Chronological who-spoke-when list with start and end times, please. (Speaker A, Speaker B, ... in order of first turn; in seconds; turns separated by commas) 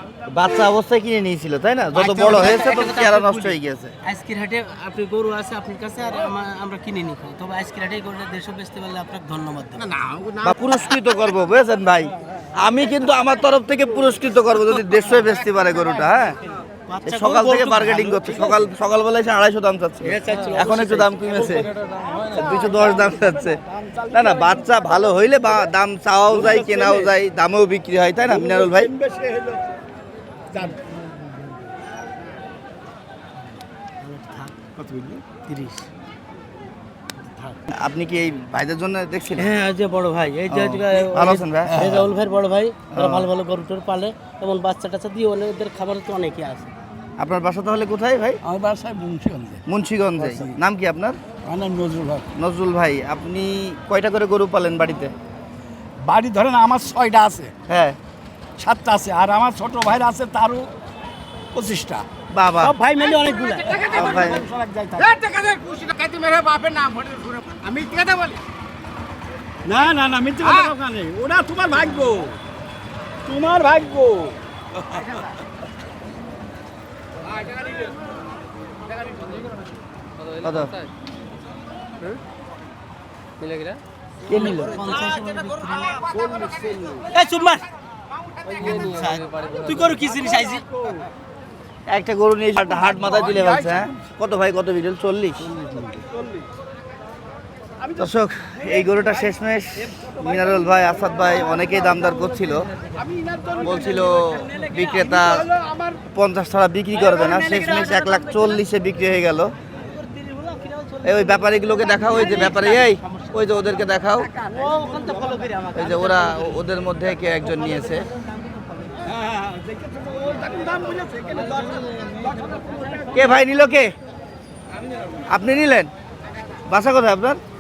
Speaker A: 0.3-3.9, Speaker B: 1.9-2.5, Speaker C: 2.2-9.9, Speaker B: 9.8-10.9, Speaker A: 10.4-16.4, Speaker C: 16.9-18.6, Speaker A: 17.1-21.7, Speaker C: 20.0-21.6, Speaker D: 22.0-23.0, Speaker A: 22.3-28.9, Speaker D: 23.8-24.5, Speaker D: 26.3-27.1, Speaker D: 28.3-29.6, Speaker D: 30.5-30.8, Speaker C: 34.0-34.6, Speaker D: 34.8-35.3, Speaker C: 35.4-35.9, Speaker C: 37.2-37.6, Speaker A: 37.7-39.5, Speaker C: 39.4-46.7, Speaker A: 40.5-41.8, Speaker D: 41.7-42.1, Speaker A: 42.9-43.3, Speaker A: 47.2-48.4, Speaker D: 48.4-49.6, Speaker A: 49.7-51.2, Speaker D: 50.2-50.6, Speaker D: 51.4-52.3, Speaker A: 52.4-55.1, Speaker D: 56.0-57.5, Speaker A: 57.7-58.0, Speaker D: 58.6-60.7, Speaker D: 61.5-62.1, Speaker A: 62.3-62.8, Speaker C: 62.6-64.0, Speaker D: 63.4-65.1, Speaker B: 63.8-64.2, Speaker A: 63.9-64.5, Speaker B: 65.0-68.4, Speaker D: 69.7-72.3, Speaker B: 70.4-70.7, Speaker D: 73.2-75.1, Speaker A: 80.4-80.8, Speaker A: 84.3-84.9, Speaker C: 84.3-86.2, Speaker B: 86.2-87.0, Speaker C: 87.1-87.7, Speaker C: 88.5-90.6, Speaker A: 91.9-95.5, Speaker D: 92.8-93.9, Speaker C: 95.5-96.0, Speaker A: 98.0-102.7, Speaker A: 103.6-109.5, Speaker C: 106.9-108.6, Speaker C: 109.8-113.4, Speaker A: 111.0-114.3, Speaker C: 114.4-116.6, Speaker A: 115.8-118.1, Speaker D: 119.3-122.9, Speaker C: 121.3-123.1, Speaker A: 123.1-123.9, Speaker A: 125.3-125.9, Speaker A: 126.7-127.4